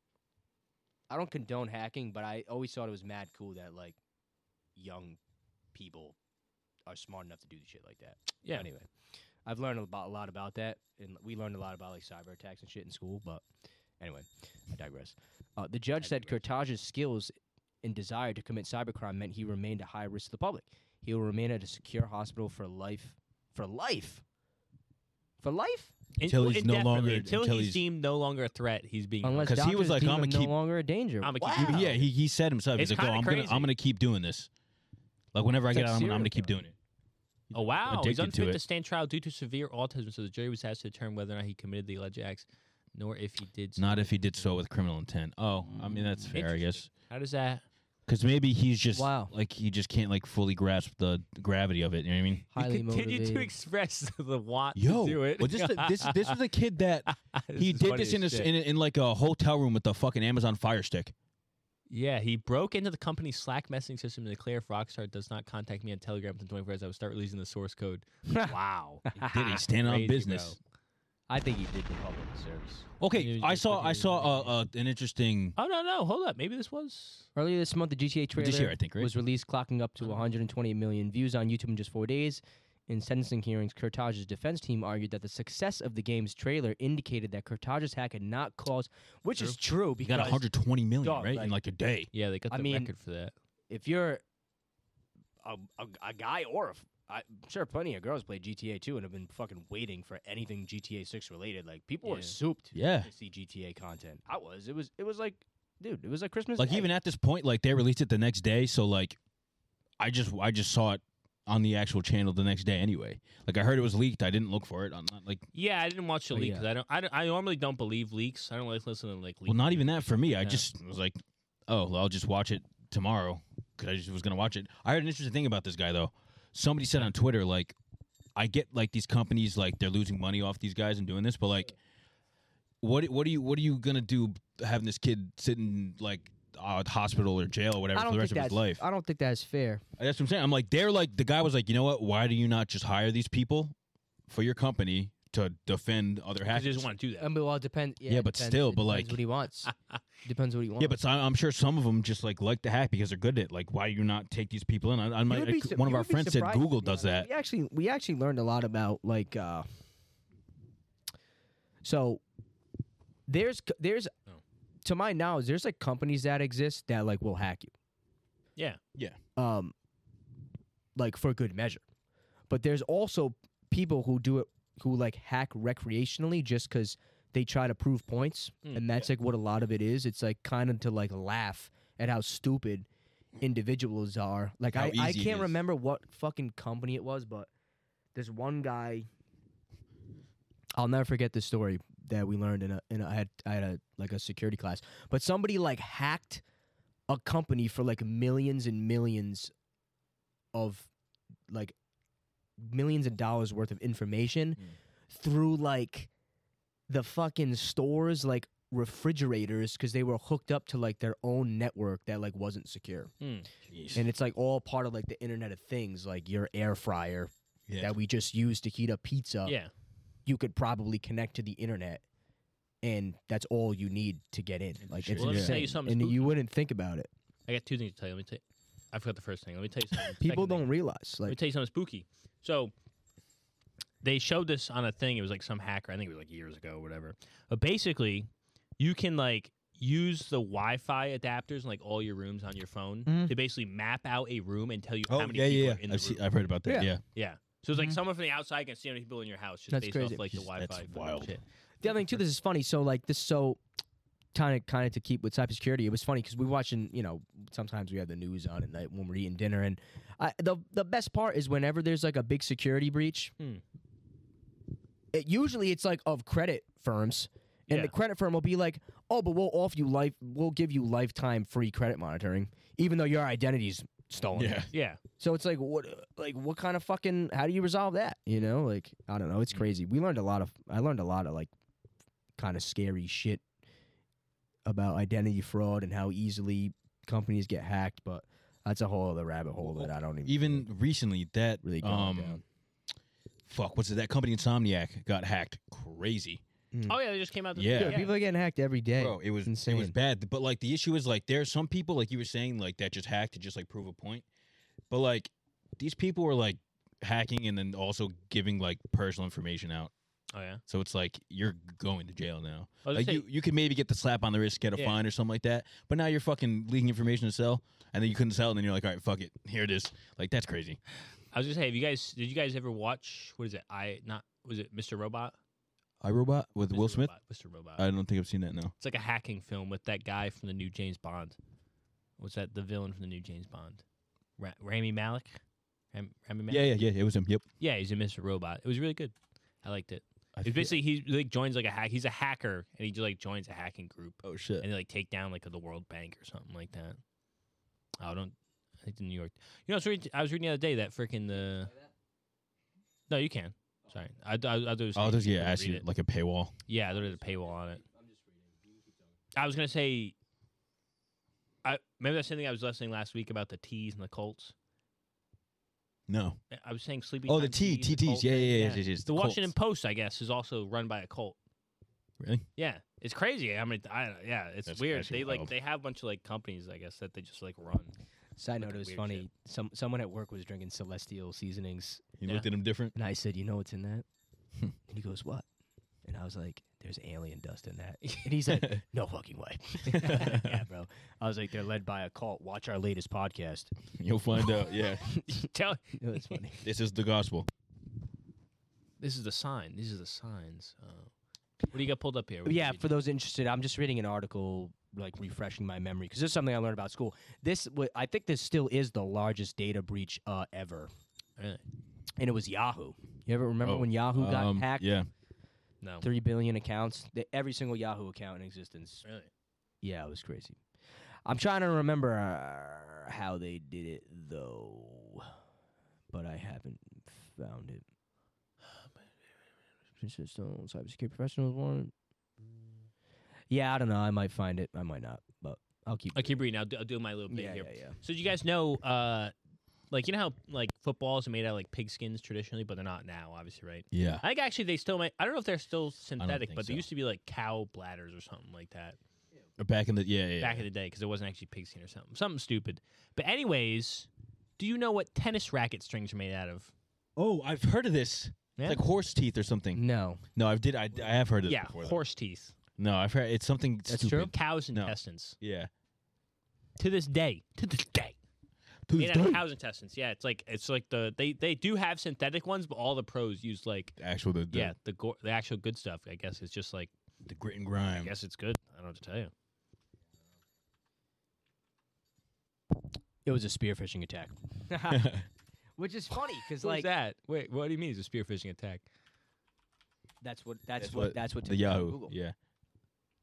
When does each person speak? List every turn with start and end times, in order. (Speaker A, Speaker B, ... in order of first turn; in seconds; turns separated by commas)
Speaker A: 1.1-4.0, Speaker A: 4.8-5.2, Speaker A: 5.7-6.2, Speaker A: 6.9-8.9, Speaker A: 9.5-13.4, Speaker A: 14.0-24.2, Speaker A: 25.4-25.9, Speaker B: 26.2-29.7, Speaker C: 26.2-27.8, Speaker A: 29.2-31.9, Speaker C: 29.4-30.5, Speaker B: 31.2-32.0, Speaker C: 31.6-34.5, Speaker B: 32.8-33.7, Speaker C: 35.3-36.7, Speaker A: 35.7-36.6, Speaker C: 37.5-38.6, Speaker B: 37.5-44.5, Speaker C: 43.8-46.9, Speaker B: 46.3-47.6, Speaker C: 48.1-52.5, Speaker A: 48.9-49.3, Speaker A: 52.5-53.5, Speaker B: 52.6-56.4, Speaker C: 54.8-61.1, Speaker B: 57.1-58.5, Speaker B: 61.9-70.6, Speaker A: 68.3-68.5, Speaker A: 69.2-69.6, Speaker C: 69.2-70.6, Speaker A: 71.3-74.5, Speaker C: 73.0-75.6, Speaker B: 75.6-77.3, Speaker A: 77.4-90.4, Speaker C: 78.4-79.1, Speaker C: 90.0-92.1, Speaker A: 91.0-91.5, Speaker B: 92.1-93.3, Speaker A: 92.5-92.9, Speaker A: 93.7-94.2, Speaker A: 95.4-106.9, Speaker B: 102.0-102.4, Speaker C: 102.8-103.1, Speaker C: 106.6-109.2, Speaker C: 110.0-115.5, Speaker B: 115.5-120.7, Speaker A: 116.3-116.7, Speaker C: 119.5-127.8, Speaker C: 128.4-131.7, Speaker C: 132.8-138.8, Speaker A: 137.9-139.8, Speaker C: 140.0-143.8, Speaker C: 144.3-146.9, Speaker B: 146.4-147.3, Speaker A: 147.2-149.7, Speaker C: 148.1-149.2, Speaker B: 149.7-150.0, Speaker A: 150.2-151.0, Speaker C: 150.8-157.3, Speaker A: 155.3-159.7, Speaker A: 161.8-162.2, Speaker A: 163.3-164.1, Speaker A: 164.8-167.7, Speaker A: 169.4-169.7, Speaker A: 171.0-171.8, Speaker A: 172.5-182.9, Speaker A: 183.4-187.5, Speaker C: 184.7-185.6, Speaker A: 188.2-189.1, Speaker A: 190.8-196.4, Speaker A: 197.1-199.5, Speaker A: 200.5-200.9, Speaker A: 201.5-201.8, Speaker A: 202.6-206.1, Speaker A: 206.9-213.1, Speaker B: 213.2-213.5, Speaker C: 213.7-214.1, Speaker A: 213.9-219.6, Speaker C: 217.7-217.9, Speaker B: 219.4-219.7, Speaker A: 220.3-222.0, Speaker A: 222.8-227.1, Speaker C: 224.9-225.6, Speaker B: 225.2-226.4, Speaker B: 227.5-230.7, Speaker A: 230.2-231.4, Speaker B: 231.3-232.7, Speaker B: 234.0-238.3, Speaker B: 238.8-246.2, Speaker A: 243.1-243.3, Speaker C: 245.1-247.0, Speaker A: 246.7-246.9, Speaker B: 247.0-251.4, Speaker A: 249.7-250.3, Speaker C: 250.3-251.4, Speaker A: 251.8-253.6, Speaker A: 254.3-263.3, Speaker A: 265.1-274.7, Speaker B: 267.7-267.9, Speaker C: 274.4-274.7, Speaker B: 274.7-275.0, Speaker A: 275.2-281.5, Speaker A: 282.4-283.4, Speaker A: 284.7-290.7, Speaker C: 289.6-292.4, Speaker A: 291.6-292.4, Speaker C: 293.5-296.4, Speaker A: 296.7-297.0, Speaker B: 296.9-298.1, Speaker C: 297.6-298.1, Speaker A: 297.8-300.0, Speaker C: 299.0-304.2, Speaker C: 304.9-309.9, Speaker B: 310.3-310.6, Speaker C: 310.7-320.8, Speaker B: 312.9-313.2, Speaker B: 321.3-325.4, Speaker C: 326.0-327.1, Speaker B: 326.7-327.8, Speaker C: 327.8-328.7, Speaker B: 328.8-331.4, Speaker B: 332.2-333.8, Speaker B: 334.4-335.4, Speaker B: 335.9-336.7, Speaker C: 336.5-337.4, Speaker B: 337.6-347.0, Speaker C: 340.4-340.8, Speaker C: 344.2-344.7, Speaker B: 348.0-351.7, Speaker B: 353.1-355.9, Speaker C: 354.9-356.6, Speaker B: 356.7-357.8, Speaker A: 357.9-358.9, Speaker B: 359.4-360.1, Speaker B: 361.6-364.5, Speaker C: 366.1-366.4, Speaker B: 366.5-371.4, Speaker C: 367.3-369.5, Speaker C: 372.2-372.5, Speaker B: 372.6-377.9, Speaker C: 374.7-375.5, Speaker A: 378.4-382.1, Speaker B: 378.6-379.3, Speaker C: 382.2-382.9, Speaker A: 382.9-384.1, Speaker A: 384.9-385.4, Speaker A: 386.1-393.7, Speaker B: 388.0-388.4, Speaker C: 389.9-390.5, Speaker B: 390.2-390.5, Speaker C: 393.9-395.2, Speaker A: 395.1-396.6, Speaker B: 395.3-396.4, Speaker C: 396.6-397.5, Speaker B: 399.0-401.1, Speaker B: 401.7-402.9, Speaker A: 402.4-410.9, Speaker B: 411.4-411.6, Speaker A: 412.2-414.9, Speaker C: 413.6-415.1, Speaker A: 416.0-419.0, Speaker B: 419.1-419.3, Speaker A: 419.8-420.6, Speaker A: 421.3-425.3, Speaker A: 426.1-427.9, Speaker A: 430.0-431.9, Speaker A: 433.5-436.4, Speaker B: 436.1-439.3, Speaker A: 437.3-438.0, Speaker B: 439.9-449.0, Speaker C: 443.9-444.2, Speaker C: 446.2-446.9, Speaker C: 449.6-450.7, Speaker B: 450.4-454.1, Speaker B: 454.6-456.7, Speaker C: 457.2-459.8, Speaker A: 459.8-460.2, Speaker C: 460.4-462.0, Speaker B: 461.5-462.5, Speaker C: 462.8-465.7, Speaker A: 463.9-464.3, Speaker B: 464.3-465.4, Speaker B: 466.8-468.1, Speaker C: 468.9-469.4, Speaker B: 469.0-474.0, Speaker C: 474.0-474.7, Speaker B: 474.5-476.9, Speaker C: 477.3-478.1, Speaker B: 477.9-479.3, Speaker A: 483.2-485.1, Speaker C: 484.9-485.3, Speaker A: 485.8-486.9, Speaker B: 486.6-488.8, Speaker A: 490.2-492.1, Speaker C: 490.8-492.4